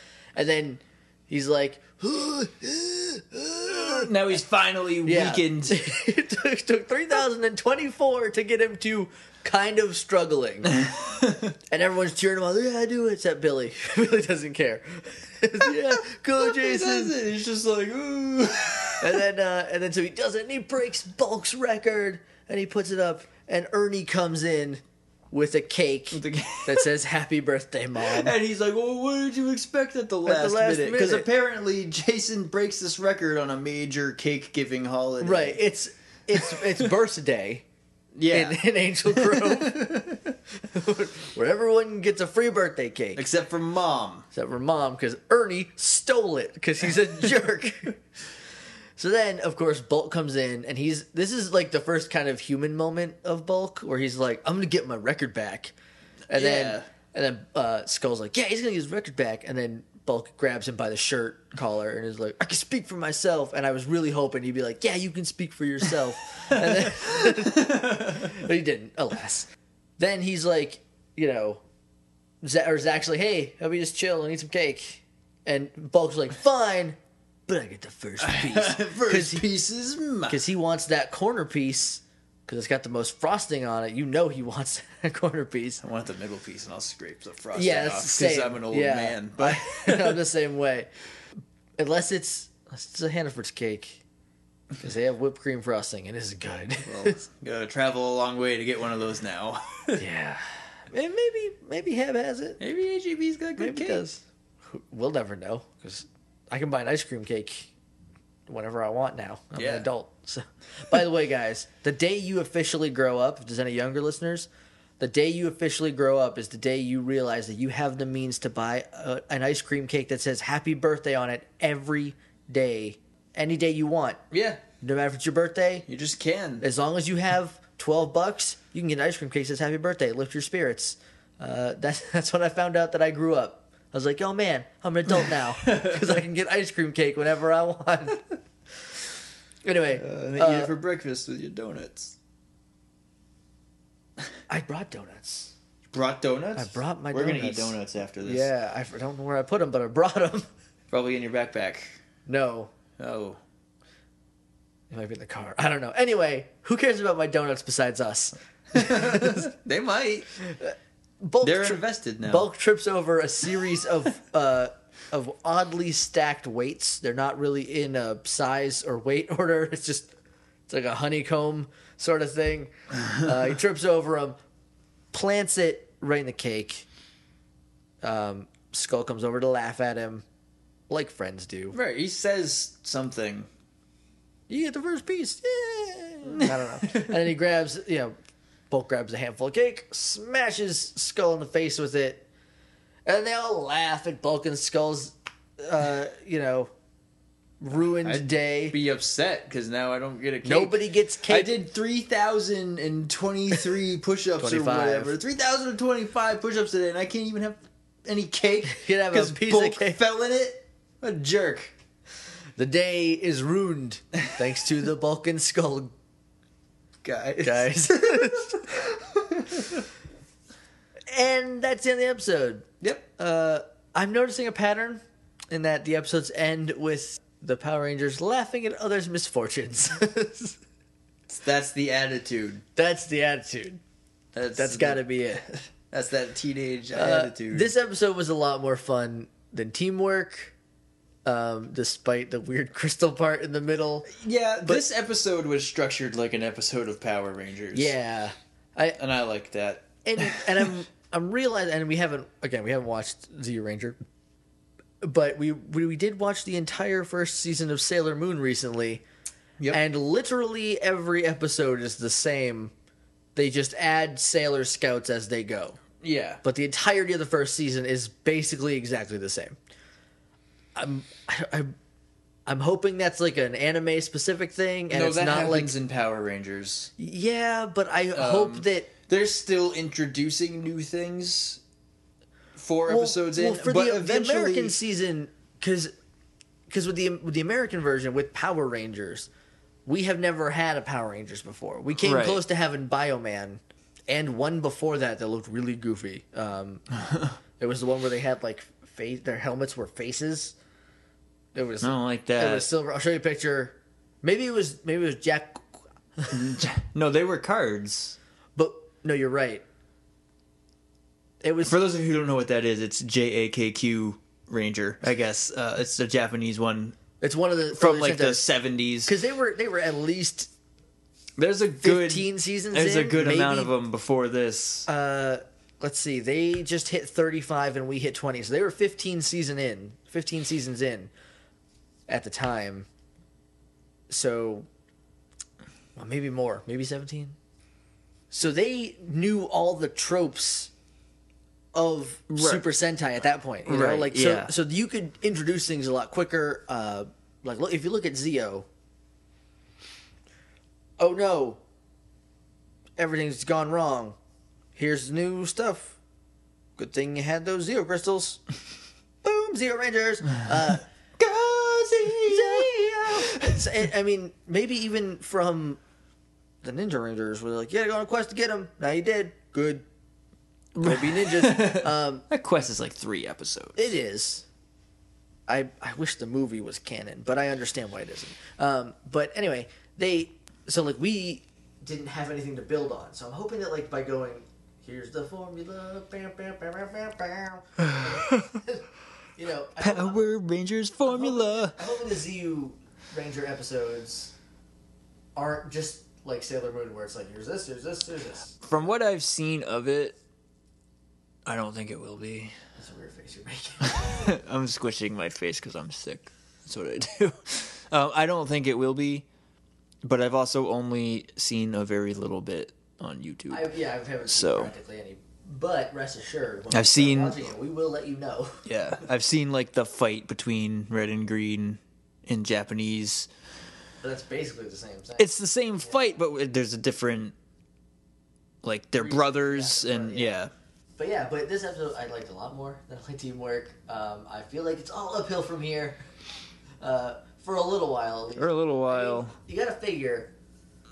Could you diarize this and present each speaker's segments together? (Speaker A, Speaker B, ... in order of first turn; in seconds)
Speaker A: 0.3-4.1, 5.0-10.8, 11.7-17.1, 19.0-28.3, 30.2-31.3, 35.2-37.6, 38.3-40.1, 40.6-43.2, 44.3-48.0, 49.0-55.7, 56.3-71.6, 72.4-77.0, 77.5-79.4, 80.3-85.8, 87.5-90.9, 91.8-94.0, 94.8-97.2, 100.0-102.6, 103.6-107.7, 108.5-114.5, 115.0-124.2, 124.8-125.9, 126.6-138.3, 139.6-140.7, 144.5-145.5, 146.6-150.5, 152.2-152.7, 154.9-159.5, 160.4-170.1, 170.7-174.4, 175.1-176.9, 178.0-180.2, 180.9-181.8, 184.5-188.1, 188.7-192.2, 193.1-196.7, 197.6-198.8, 200.4-201.6, 204.4-205.2, 208.7-210.0, 212.6-215.9, 217.4-218.8, 221.1-230.6, 232.8-233.8, 234.5-235.5, 236.9-240.5, 241.2-244.1, 247.7-249.0, 250.0-254.0, 255.0-259.0, 259.7-262.7, 263.4-265.8, 266.4-269.6, 270.7-271.7, 272.4-275.8, 277.0-278.9, 282.9-285.9, 286.7-289.3, 289.9-296.8, 297.6-300.5, 301.5-306.6, 308.6-309.6, 311.4-311.8, 317.2-318.5, 319.0-320.5, 321.8-323.7, 324.9-331.1, 332.1-332.9, 334.1-334.7, 335.9-337.4, 338.3-340.7, 341.7-348.6, 351.0-351.6, 353.0-354.1, 354.8-356.0, 356.8-358.4, 359.2-360.8, 362.2-365.8, 366.6-369.8, 370.8-372.2, 373.8-374.4, 375.5-388.9, 389.4-390.3, 391.0-394.3, 395.4-398.6, 402.8-404.3, 413.5-418.6, 424.0-425.3, 429.0-430.4, 431.0-436.0, 436.8-440.3
Speaker B: 3.6-5.8, 10.8-11.5, 15.6-19.2, 26.1-26.9, 28.0-35.6, 36.4-36.7, 38.1-40.3, 43.1-44.3, 56.3-56.9, 66.7-68.4, 78.2-80.4, 85.8-90.2, 96.8-100.0, 102.6-104.0, 109.5-109.8, 124.3-124.6, 125.9-126.6, 135.6-136.2, 139.9-142.1, 145.9-148.5, 150.9-151.9, 153.0-153.4, 158.7-160.3, 161.4-162.5, 181.7-183.5, 186.2-187.2, 198.0-211.7, 217.0-219.8, 231.3-232.6, 234.3-237.7, 244.1-247.9, 249.0-250.7, 266.0-266.4, 274.9-276.9, 278.1-281.6, 282.5-284.8, 292.0-292.4, 297.0-297.3, 301.8-302.7, 306.3-308.1, 311.6-317.0, 317.7-319.1, 321.4-324.9, 342.3-342.7, 343.6-344.5, 361.2-363.6, 370.7-373.9, 388.0-388.3, 389.8-391.8, 398.6-400.2, 401.4-402.5, 403.9-409.2, 410.0-413.7, 414.2-414.7, 416.7-417.5, 418.6-423.3, 425.2-427.3, 428.6-430.5, 438.4-439.3